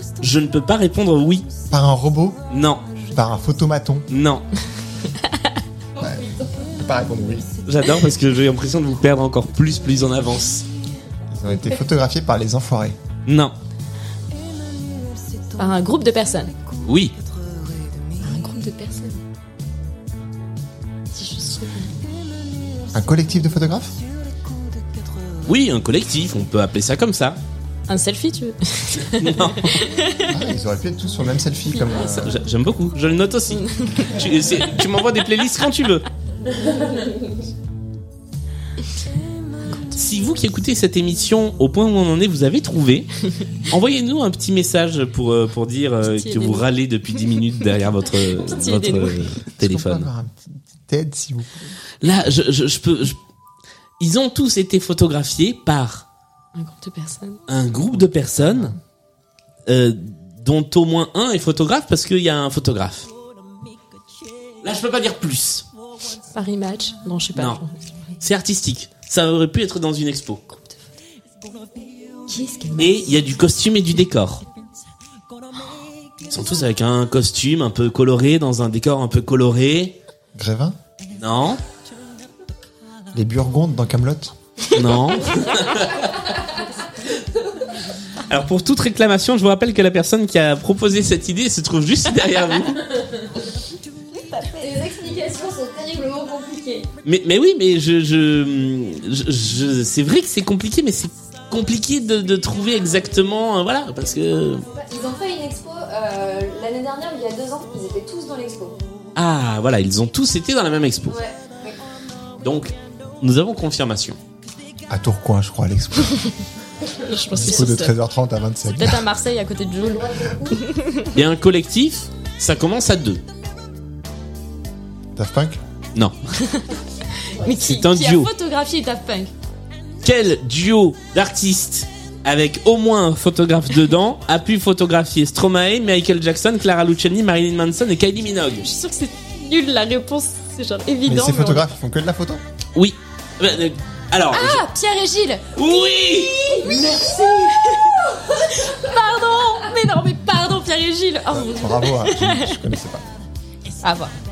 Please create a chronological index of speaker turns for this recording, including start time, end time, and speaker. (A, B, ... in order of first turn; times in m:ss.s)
0:00.2-0:01.5 A
0:01.7-0:02.4 B
0:02.5-0:02.8 A
0:03.1-0:04.1 B
0:04.1-0:04.4 A
0:06.0-0:07.5 B
0:07.6-0:10.6 A
0:11.3-0:13.0 B
0:13.2-0:13.5 A
0:15.6-0:16.5 C
0:16.8-0:17.1 A
0:18.2-0:19.2 C
0:21.1-0:21.9 C
0:22.9-0:23.9 B
0:25.4-0:27.4 A
0:27.9-0:30.3 C
0:29.1-0:29.8 A
0:30.3-0:32.4 B
0:31.9-0:36.0 A
0:33.8-0:34.1 C
0:39.7-0:40.0 C
0:40.0-0:43.1 A
0:43.7-0:50.1 A
0:46.0-0:46.6 C
0:48.4-0:49.3 C
0:49.5-0:51.7 B
0:52.0-0:53.2 A
0:54.0-0:56.0 A
0:56.5-0:57.4 C
0:57.5-0:58.7 A
0:58.4-0:58.8 B
0:59.7-1:03.1 A
1:04.6-1:05.6 A
1:06.3-1:07.8 C
1:08.2-1:10.5 A
1:12.3-1:13.2 C
1:12.8-1:14.4 A
1:16.3-1:20.0 A
1:20.3-1:20.8 B
1:21.2-1:21.6 A
1:23.1-1:24.3 B
1:24.7-1:26.1 A
1:28.3-1:32.9 A
1:34.5-1:36.9 D
1:37.0-1:44.6 A
1:44.7-1:48.8 D
1:49.1-1:51.2 A
1:51.1-1:51.7 D
1:52.4-1:54.2 A
1:54.9-1:56.2 B
1:57.0-1:57.9 C
1:57.3-1:59.0 B
1:58.7-2:01.1 C
2:01.1-2:03.2 A
2:05.1-2:05.6 B
2:06.4-2:06.7 C
2:07.2-2:09.3 C
2:07.5-2:08.3 A
2:10.0-2:18.6 A
2:18.6-2:21.7 C
2:21.0-2:22.4 B
2:22.7-2:24.6 A
2:24.3-2:25.4 C
2:25.6-2:27.3 A
2:26.5-2:32.6 C
2:31.3-2:33.0 B
2:33.8-2:34.1 C